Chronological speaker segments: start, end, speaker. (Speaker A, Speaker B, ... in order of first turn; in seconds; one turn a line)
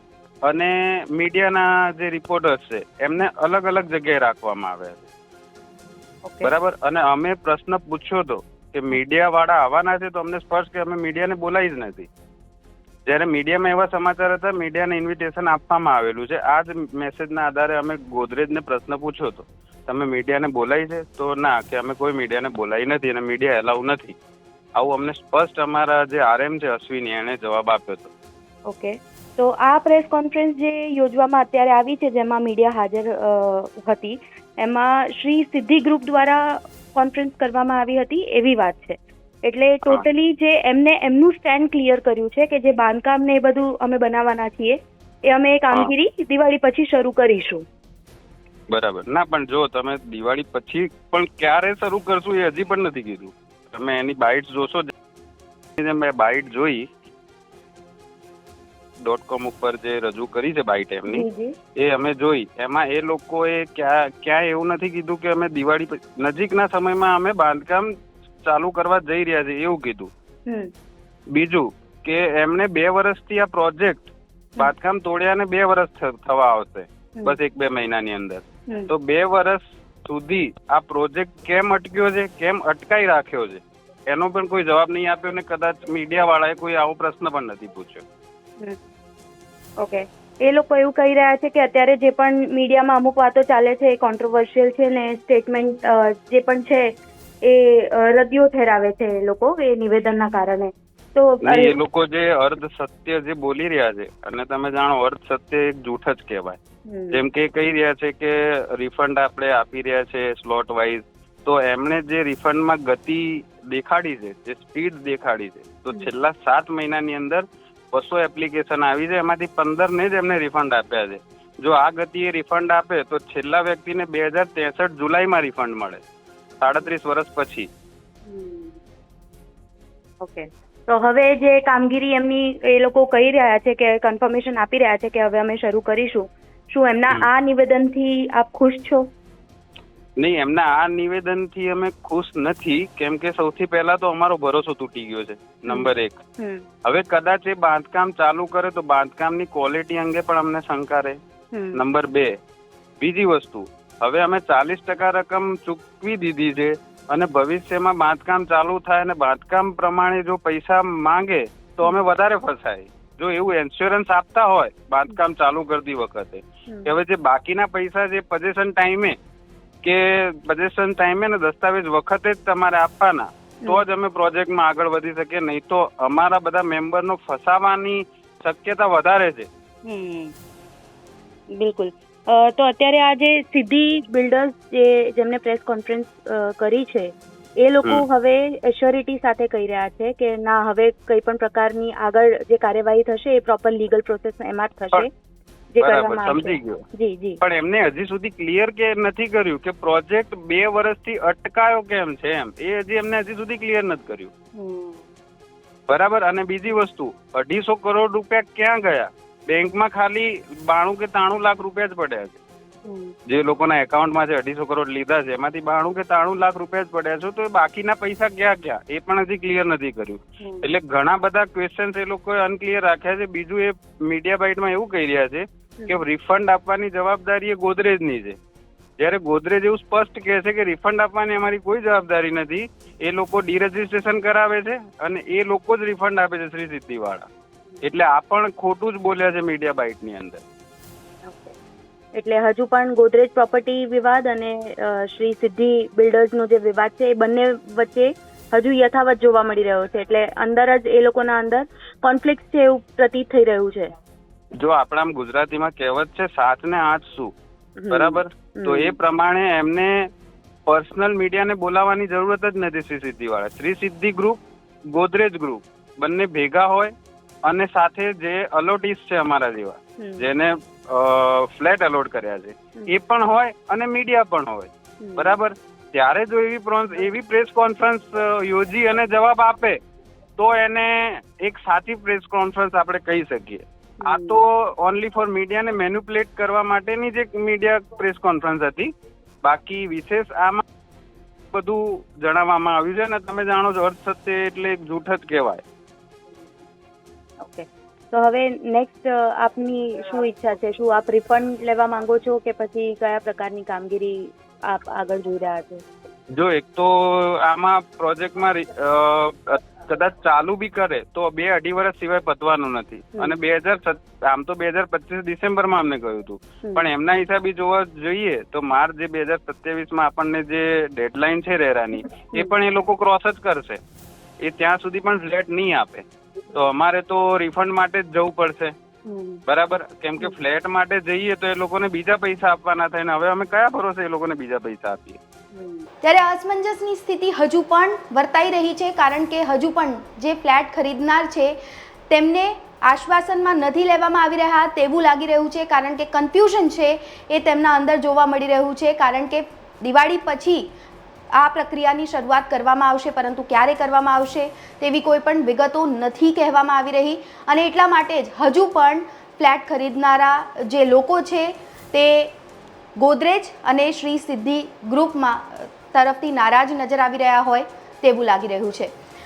Speaker A: 0.5-5.1
Speaker B: 6.2-6.5
Speaker A: 6.4-12.1
Speaker A: 13.1-24.2
Speaker A: 24.8-28.1
Speaker B: 28.7-47.6
Speaker A: 48.7-54.9
Speaker A: 55.8-56.9
Speaker A: 59.0-61.3
Speaker B: 61.0-61.6
Speaker A: 61.8-67.9
Speaker A: 68.5-70.1
Speaker B: 70.5-70.7
Speaker A: 71.3-88.0
Speaker B: 89.8-101.8
Speaker A: 101.4-106.6
Speaker B: 106.9-107.2
Speaker A: 107.1-126.0
Speaker A: 126.6-127.7
Speaker B: 128.2-128.8
Speaker B: 130.2-139.1
Speaker A: 140.2-146.2
Speaker B: 145.7-146.7
Speaker A: 146.8-151.2
Speaker B: 151.5-151.8
Speaker A: 151.7-152.3
Speaker A: 153.0-169.2
Speaker B: 161.8-162.1
Speaker B: 166.7-166.9
Speaker A: 169.8-179.5
Speaker B: 179.8-180.3
Speaker B: 181.5-195.1
Speaker B: 195.7-197.4
Speaker A: 195.8-196.8
Speaker A: 197.4-204.3
Speaker B: 204.6-205.1
Speaker A: 205.9-212.4
Speaker B: 212.8-213.1
Speaker A: 213.3-228.4
Speaker B: 220.4-220.7
Speaker A: 229.0-237.3
Speaker A: 237.8-240.4
Speaker B: 241.2-241.5
Speaker B: 242.1-253.9
Speaker A: 254.6-257.3
Speaker B: 257.8-259.0
Speaker A: 257.9-260.1
Speaker A: 260.7-264.4
Speaker A: 264.9-266.9
Speaker A: 267.5-279.8
Speaker B: 270.0-270.3
Speaker B: 275.0-275.4
Speaker A: 280.4-288.9
Speaker B: 284.0-284.4
Speaker A: 289.4-290.6
Speaker A: 291.5-295.6
Speaker B: 297.4-305.8
Speaker A: 306.4-323.8
Speaker B: 322.1-322.5
Speaker A: 324.4-328.8
Speaker B: 329.1-329.4
Speaker A: 329.5-335.2
Speaker B: 335.5-335.9
Speaker C: 336.0-341.6
Speaker C: 342.1-350.7
Speaker C: 351.4-362.3
Speaker C: 363.0-368.9